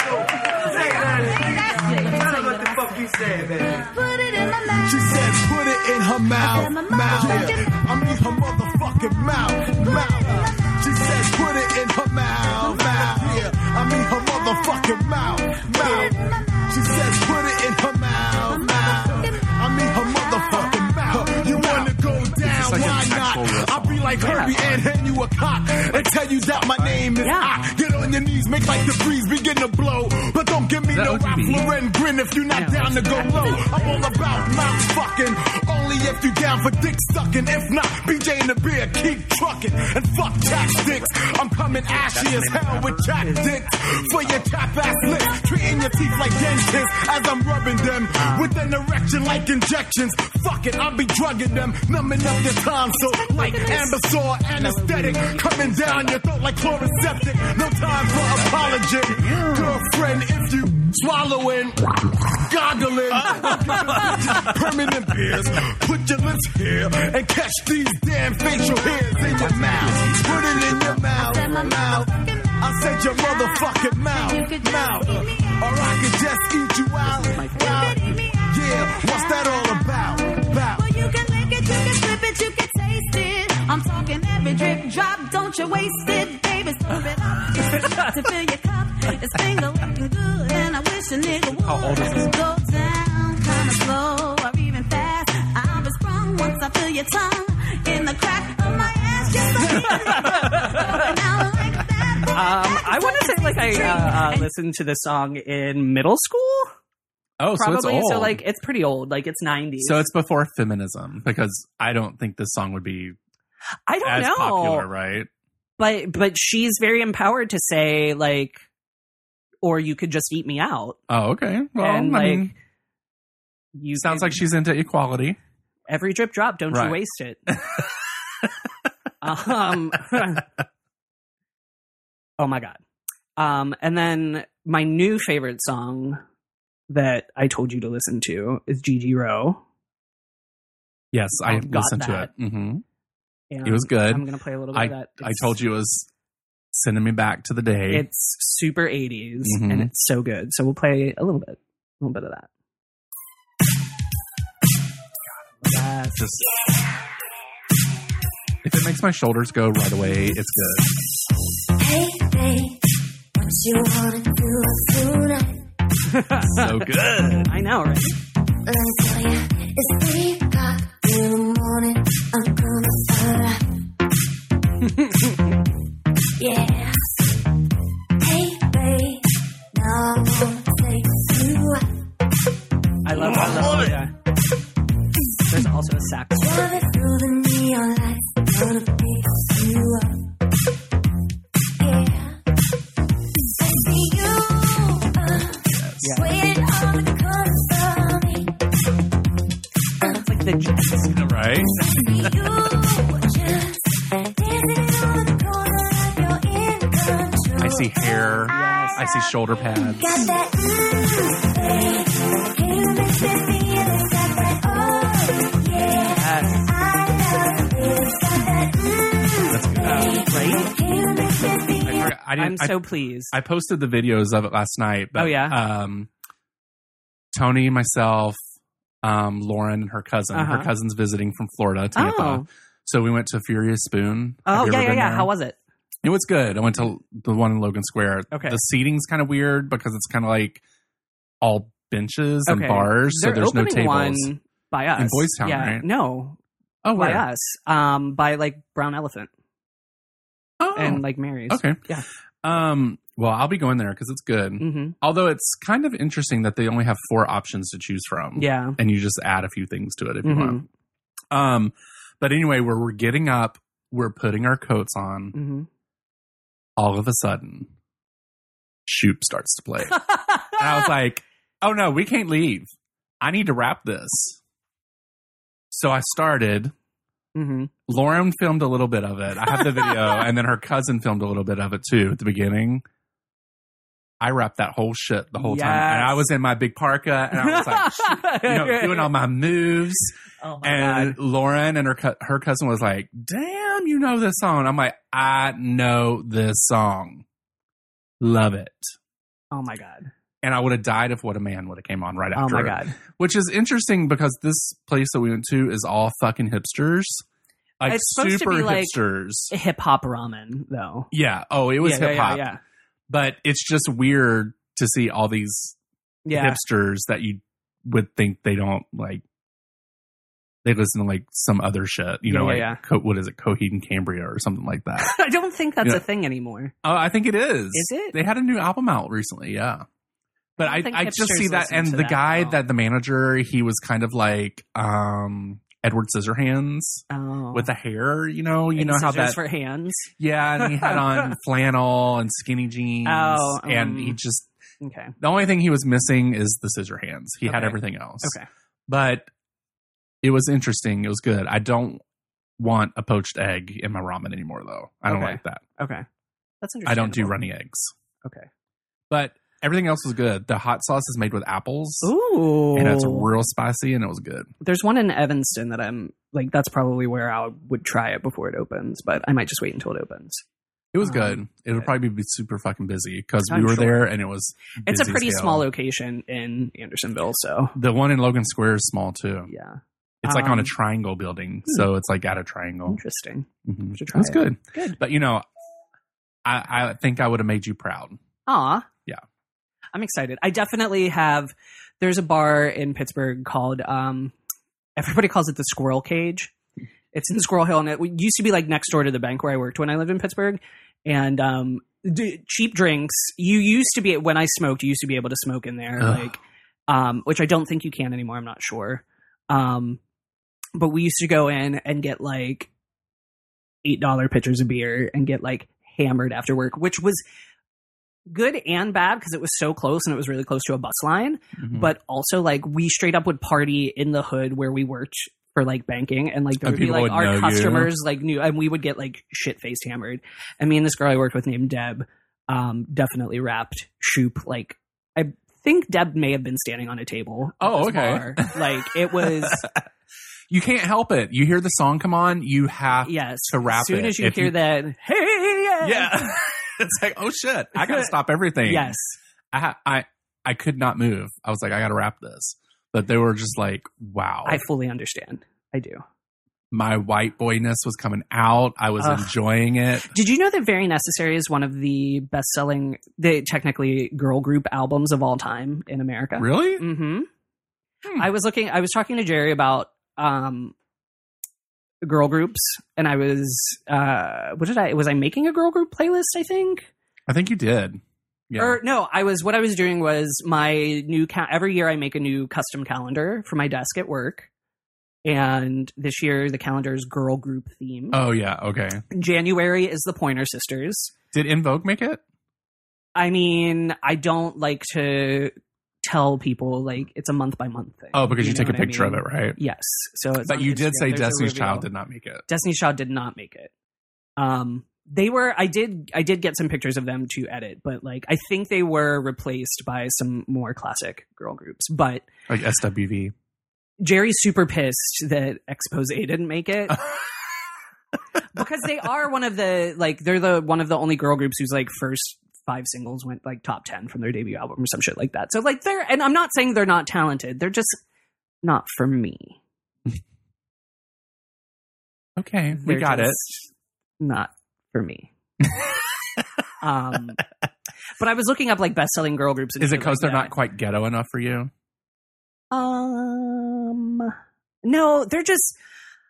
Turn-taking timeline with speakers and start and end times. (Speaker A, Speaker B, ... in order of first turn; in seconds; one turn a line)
Speaker A: 0.7-5.2
Speaker B: 4.8-80.9
Speaker A: 6.4-7.8
Speaker A: 9.1-10.0
Speaker A: 12.6-13.4
Speaker A: 14.5-15.0
Speaker A: 15.6-16.7
Speaker A: 18.4-19.4
Speaker A: 20.1-21.9
Speaker C: 22.4-24.9
Speaker D: 24.2-24.5
Speaker C: 26.0-27.0
Speaker D: 27.2-27.5
Speaker C: 30.9-31.7
Speaker D: 32.5-34.5
Speaker A: 33.7-34.4
Speaker C: 40.8-41.1
Speaker C: 41.7-43.1
Speaker D: 43.2-44.4
Speaker A: 45.2-46.3
Speaker D: 48.1-48.5
Speaker D: 53.1-54.0
Speaker A: 53.1-53.7
Speaker D: 54.5-56.2
Speaker C: 58.3-59.8
Speaker C: 63.2-64.2
Speaker C: 69.1-71.1
Speaker A: 71.1-75.6
Speaker D: 77.0-77.9
Speaker A: 77.5-80.1
Speaker A: 80.7-104.5
Speaker C: 91.3-92.5
Speaker C: 99.8-100.1
Speaker D: 99.8-101.0
Speaker D: 102.3-106.7
Speaker C: 107.4-108.4
Speaker D: 107.5-110.0
Speaker C: 109.8-113.2
Speaker D: 113.9-114.9
Speaker C: 114.0-115.3
Speaker D: 115.8-118.6
Speaker D: 119.6-121.0
Speaker C: 121.1-122.5
Speaker D: 121.8-122.5
Speaker D: 123.7-124.4
Speaker C: 123.9-125.4
Speaker D: 125.9-127.4
Speaker C: 126.7-127.5
Speaker D: 129.2-130.4
Speaker D: 132.4-132.8
Speaker D: 133.4-136.2
Speaker D: 136.9-139.6
Speaker C: 141.1-142.8
Speaker D: 141.4-142.3
Speaker D: 143.5-145.6
Speaker C: 143.6-146.1
Speaker C: 146.7-148.1
Speaker D: 147.9-152.5
Speaker C: 149.4-149.9
Speaker D: 155.6-156.2
Speaker C: 156.1-156.4
Speaker C: 158.6-160.9
Speaker D: 160.1-160.3
Speaker E: 161.8-162.8
Speaker E: 163.3-165.6
Speaker D: 166.1-168.1
Speaker C: 166.5-167.4
Speaker E: 168.6-173.6
Speaker D: 174.8-175.4
Speaker E: 176.4-177.3
Speaker E: 178.2-181.9
Speaker D: 183.0-184.1
Speaker D: 185.5-186.9
Speaker E: 186.3-190.2
Speaker E: 191.8-192.4
Speaker E: 193.6-198.5
Speaker C: 195.7-196.1
Speaker D: 196.0-196.3
Speaker D: 200.0-201.8
Speaker C: 201.2-201.7
Speaker E: 201.8-207.9
Speaker C: 207.6-210.1
Speaker D: 208.5-209.0
Speaker E: 209.8-222.1
Speaker D: 216.1-216.6
Speaker C: 219.5-220.2
Speaker D: 219.8-220.7
Speaker C: 221.8-226.1
Speaker D: 222.3-223.3
Speaker D: 225.2-225.6
Speaker C: 227.3-228.4
Speaker C: 229.0-235.3
Speaker D: 230.3-230.7
Speaker D: 231.9-232.5
Speaker D: 234.4-235.6
Speaker C: 236.0-240.6
Speaker D: 238.3-238.6
Speaker C: 241.4-244.3
Speaker D: 242.5-246.4
Speaker C: 245.0-245.9
Speaker C: 246.8-247.2
Speaker D: 246.9-249.3
Speaker C: 250.6-251.8
Speaker D: 250.7-252.0
Speaker C: 252.4-260.6
Speaker D: 254.6-254.9
Speaker D: 258.4-258.8
Speaker D: 260.2-260.6
Speaker C: 261.3-265.3
Speaker D: 265.3-265.7
Speaker C: 266.8-267.7
Speaker C: 268.9-272.7
Speaker D: 270.1-270.8
Speaker C: 273.2-274.4
Speaker C: 275.7-276.7
Speaker D: 277.3-277.7
Speaker C: 277.9-282.8
Speaker D: 279.5-280.2
Speaker C: 284.2-297.2
Speaker D: 285.4-286.2
Speaker D: 287.3-289.1
Speaker D: 290.4-291.2
Speaker C: 298.2-298.9
Speaker D: 299.5-300.1
Speaker C: 300.4-307.2
Speaker D: 302.3-303.0
Speaker C: 307.8-309.5
Speaker D: 307.8-308.9
Speaker D: 309.5-311.1
Speaker C: 311.1-312.5
Speaker D: 311.8-312.6
Speaker C: 313.1-315.8
Speaker D: 316.2-316.6
Speaker C: 316.3-319.2
Speaker C: 320.6-325.1
Speaker D: 322.2-322.8
Speaker D: 325.0-326.7
Speaker C: 326.8-329.8
Speaker D: 327.7-328.2
Speaker C: 330.6-339.4
Speaker D: 330.6-332.6
Speaker D: 337.1-337.7
Speaker D: 338.8-341.3
Speaker C: 340.2-344.5
Speaker D: 343.0-344.2
Speaker D: 344.8-345.1
Speaker C: 345.2-348.4
Speaker D: 347.4-348.4
Speaker C: 348.9-349.3
Speaker C: 350.2-352.0
Speaker C: 352.6-355.6
Speaker D: 355.1-356.1
Speaker D: 356.6-357.4
Speaker C: 356.9-357.9
Speaker C: 359.1-362.1
Speaker D: 362.0-363.3
Speaker C: 362.7-364.5
Speaker D: 364.6-370.4
Speaker C: 370.9-375.6
Speaker D: 371.0-371.4
Speaker D: 373.5-374.1
Speaker D: 374.9-377.8
Speaker C: 377.7-379.5
Speaker D: 379.5-380.7
Speaker C: 380.2-383.0
Speaker D: 382.9-385.0
Speaker C: 383.6-385.4
Speaker C: 386.4-388.2
Speaker D: 388.4-388.9
Speaker D: 389.9-394.3
Speaker D: 395.0-396.5
Speaker D: 397.1-410.0
Speaker C: 406.0-406.3
Speaker D: 410.8-412.7
Speaker D: 413.8-417.2
Speaker D: 418.3-439.7
Speaker C: 421.6-421.9
Speaker C: 426.6-427.9
Speaker C: 437.6-439.8
Speaker C: 440.5-444.6
Speaker D: 443.0-446.2
Speaker C: 445.8-448.9
Speaker D: 447.8-449.2
Speaker C: 449.5-454.6
Speaker D: 454.4-456.0
Speaker C: 456.7-460.1
Speaker D: 459.0-459.3
Speaker D: 460.1-467.3
Speaker C: 466.4-466.8
Speaker D: 468.1-470.7
Speaker D: 472.0-476.9
Speaker C: 477.3-478.8
Speaker D: 478.6-484.5
Speaker D: 485.2-488.2
Speaker C: 488.1-489.0
Speaker D: 489.1-491.1
Speaker C: 491.3-492.2
Speaker D: 493.1-501.9
Speaker C: 498.1-499.6
Speaker C: 500.4-502.4
Speaker D: 502.5-503.7
Speaker D: 504.4-512.3
Speaker C: 512.5-513.3
Speaker D: 514.0-517.0
Speaker D: 518.5-528.0
Speaker D: 528.6-529.6
Speaker C: 532.4-533.4
Speaker D: 532.8-533.7
Speaker D: 534.2-535.3
Speaker D: 536.8-537.4
Speaker D: 538.2-540.5
Speaker C: 539.8-541.7
Speaker D: 542.7-545.8